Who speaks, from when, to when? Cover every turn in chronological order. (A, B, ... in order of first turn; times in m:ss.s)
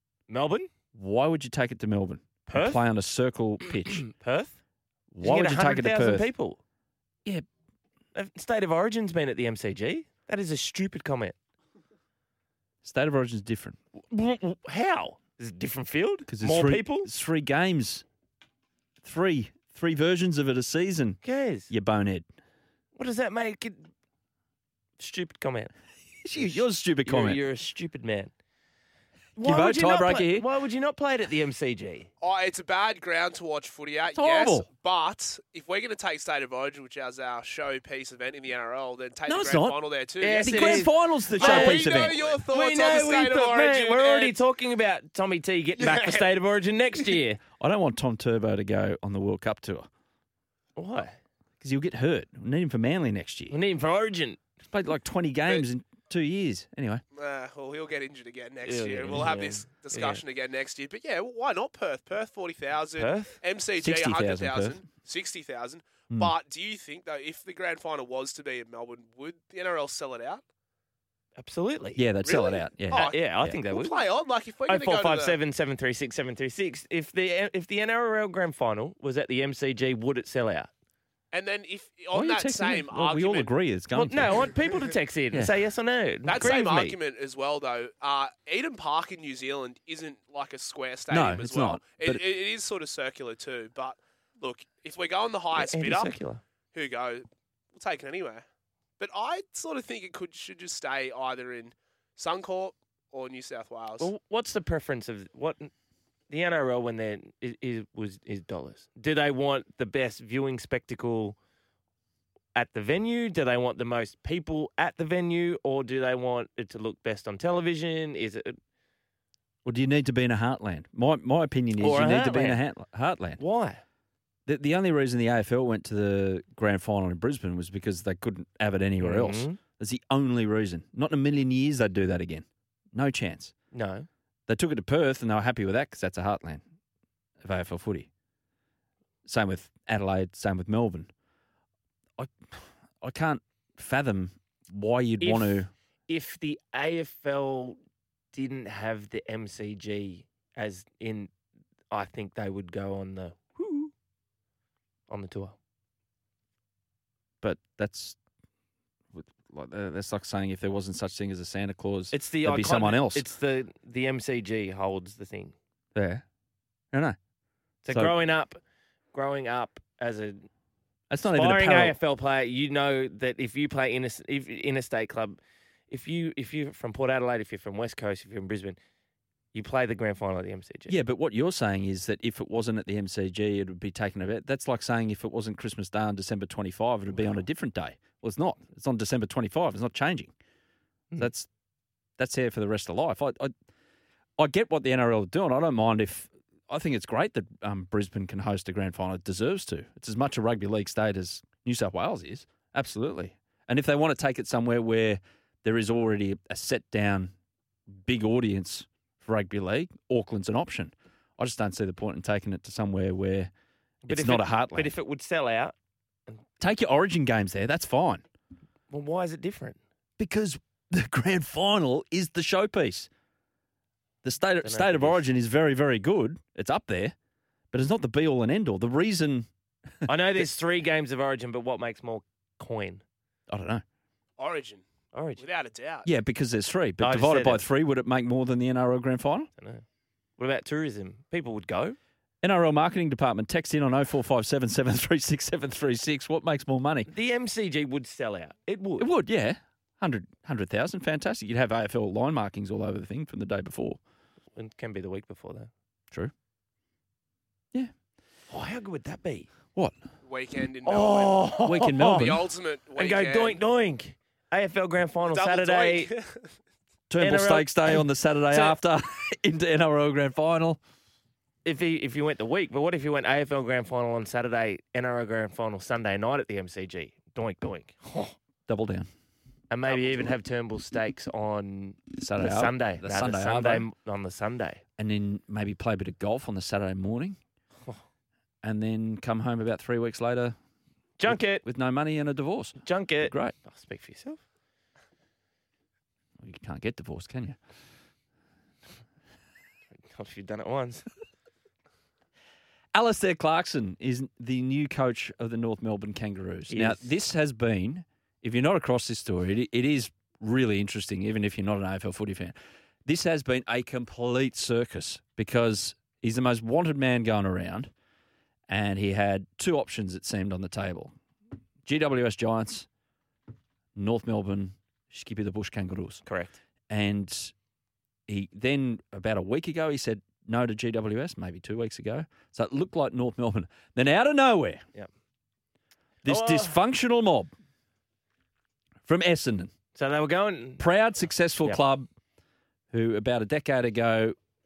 0:00.3-0:00.7 A
0:00.9-0:04.0 B
0:02.5-0:02.8 A
0:04.0-0:04.6 A
0:05.1-0:06.3 B
0:05.2-0:06.6 A
0:08.1-0:11.3 A
0:12.8-0:13.8 B
0:14.1-0:17.1 A
0:16.3-0:18.0 B
0:19.0-0:22.2 B
0:21.2-0:21.7 A
0:23.0-0:23.9 A
0:25.0-0:25.7 A
0:26.2-0:27.4 B
0:26.4-0:28.3 A
0:29.4-0:32.1 A
0:29.4-0:30.5 B
0:32.2-0:44.4 C
0:34.2-0:34.6 B
0:39.2-0:42.2 B
0:40.2-0:47.4 A
0:45.8-0:46.3 C
0:47.6-0:49.9 B
0:50.8-0:51.2 A
0:51.6-0:53.6 B
0:53.5-0:54.4 A
0:54.7-0:57.0 B
0:57.1-1:10.4 C
0:58.6-1:00.2 A
1:03.0-1:03.4 A
1:03.8-1:04.8 B
1:11.4-1:12.0 A
1:12.0-1:13.5 B
1:12.2-1:15.4 C
1:12.9-1:14.0 A
1:14.6-1:20.7 A
1:21.3-1:23.5 C
1:22.1-1:24.4 B
1:23.9-1:27.0 A
1:26.2-1:36.2 C
1:31.1-1:32.2 B
1:35.5-1:36.4 A
1:36.7-1:38.4 C
1:39.0-1:44.1 C
1:44.0-1:45.7 A
1:46.3-1:51.4 A
1:52.5-1:58.6 A
1:59.6-2:03.4 B
2:01.8-2:02.6 A
2:03.4-2:03.8 A
2:04.4-2:13.5 B
2:09.0-2:09.6 A
2:13.7-2:14.1 A
2:14.5-2:16.6 B
2:17.4-2:18.1 B
2:19.2-2:21.1 B
2:22.2-2:25.7 B
2:25.2-2:27.8 A
2:28.3-2:31.3 A
2:31.9-2:33.6 A
2:35.1-2:35.5 A
2:37.4-2:38.2 B
2:39.1-2:43.2 B
2:42.1-2:45.5 A
2:45.9-2:46.2 B
2:47.8-2:48.6 A
2:49.1-2:50.4 A
2:51.1-2:52.0 B
2:51.2-2:58.8 A
2:59.5-3:00.9 A
3:00.9-3:10.3 B
3:11.2-3:11.5 B
3:12.2-3:13.5 B
3:14.4-3:27.3 B
3:27.9-3:33.5 B
3:34.0-3:35.7 A
3:34.1-3:34.9 B
3:36.6-3:38.2 B
3:38.9-3:39.8 A
3:40.2-3:43.1 B
3:44.2-3:47.1 B
3:44.6-3:45.2 A
3:47.7-3:49.5 B
3:50.1-3:53.0 A
3:53.5-3:53.8 B
3:54.4-3:54.8 C
3:55.1-3:55.4 A
3:55.4-3:56.1 C
3:56.0-3:59.5 B
3:57.0-3:57.6 A
3:59.6-3:59.8 A
4:00.4-4:02.0 A
4:02.4-4:07.1 B
4:07.1-4:09.1 A
4:09.0-4:14.0 B
4:14.5-4:15.7 A
4:18.5-4:19.5 A
4:19.7-4:20.0 B
4:20.2-4:21.5 C
4:20.8-4:22.2 A
4:21.6-4:22.5 B
4:22.1-4:23.6 C
4:23.0-4:26.1 A
4:25.2-4:26.5 C
4:27.1-4:30.8 B
4:27.2-4:28.8 A
4:31.6-4:38.3 A
4:38.7-4:39.1 B
4:39.7-4:44.8 A
4:42.1-4:43.8 B
4:45.0-4:47.4 B
4:48.6-4:50.6 B
4:51.2-4:51.6 A
4:51.3-4:53.5 B
4:52.8-4:54.4 A
4:56.4-4:57.6 B
5:00.1-5:01.0 A
5:02.9-5:12.5 B
5:06.7-5:07.1 A
5:13.0-5:17.9 B
5:18.7-5:21.1 B
5:21.8-5:22.9 B
5:24.0-5:26.2 B
5:26.2-5:26.6 A
5:26.9-5:27.5 B
5:28.3-5:34.8 B
5:36.2-5:37.5 B
5:36.2-5:36.8 A
5:39.0-5:39.7 B
5:39.9-5:40.8 A
5:40.8-5:42.1 B
5:42.9-5:44.4 B